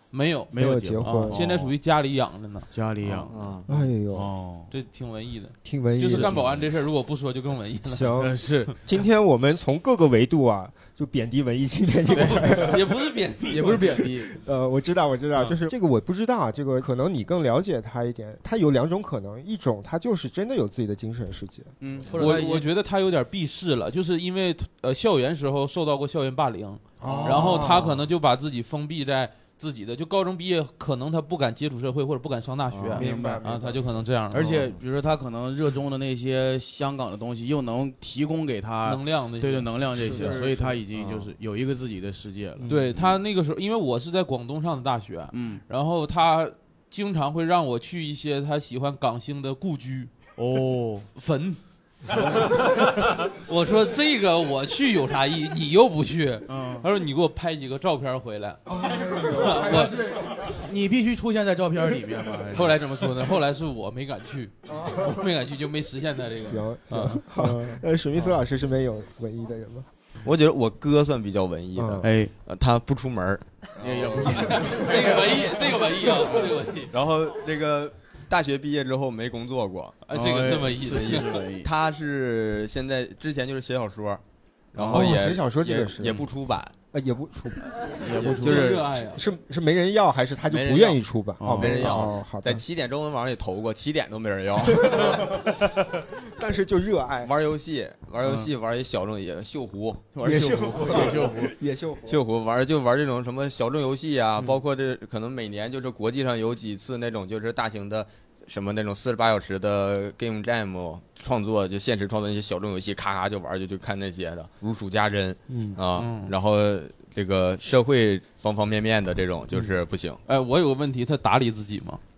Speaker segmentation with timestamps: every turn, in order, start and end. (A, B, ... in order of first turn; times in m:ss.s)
0:00.1-0:02.7 A
0:00.5-0:01.7 B
0:00.5-0:01.4 C
0:02.7-0:03.3 B
0:03.3-0:03.7 D
0:03.7-0:04.3 C
0:04.1-0:04.7 B
0:04.7-0:08.2 A
0:05.6-0:06.4 C
0:06.0-0:06.5 B
0:07.9-0:12.8 C
0:08.2-0:08.7 B
0:12.1-0:14.0 A
0:12.2-0:12.8 B
0:13.5-0:14.3 B
0:14.1-0:21.7 C
0:21.8-0:22.6 B
0:22.1-0:34.6 A
0:22.1-0:22.4 D
0:27.0-0:28.0 C
0:27.0-0:27.8 B
0:32.7-0:33.0 D
0:32.9-0:33.4 B
0:32.9-0:34.0 C
0:34.3-0:43.2 B
0:34.3-0:34.7 D
0:38.8-0:40.4 A
0:39.9-0:40.8 C
0:40.1-0:41.3 D
0:42.6-0:50.1 A
0:45.3-0:45.6 B
0:50.4-0:51.1 B
0:51.1-0:51.6 A
0:52.2-0:52.4 B
0:52.5-0:58.6 A
0:56.5-0:56.9 B
0:58.7-1:00.1 C
0:59.3-1:00.0 A
0:59.6-1:02.8 B
1:02.5-1:07.2 A
1:06.4-1:09.9 C
1:10.2-1:14.8 D
1:11.8-1:12.1 C
1:12.0-1:12.3 B
1:13.8-1:15.2 B
1:14.3-1:16.9 A
1:16.9-1:20.0 D
1:20.1-1:21.4 A
1:20.1-1:21.7 B
1:20.9-1:24.2 D
1:24.7-1:26.7 D
1:24.8-1:25.2 B
1:24.9-1:26.3 C
1:26.9-1:27.6 C
1:28.0-1:28.8 B
1:28.2-1:29.0 D
1:28.4-1:29.2 A
1:29.1-1:32.6 C
1:30.5-1:31.0 D
1:31.4-1:32.0 B
1:31.5-1:35.4 D
1:34.7-1:35.5 C
1:36.2-1:37.3 C
1:37.2-1:40.1 D
1:38.2-1:38.5 B
1:40.1-1:41.5 B
1:40.2-1:42.2 C
1:42.1-2:00.2 D
1:55.5-1:55.8 C
1:55.9-1:56.3 A
2:00.3-2:02.0 A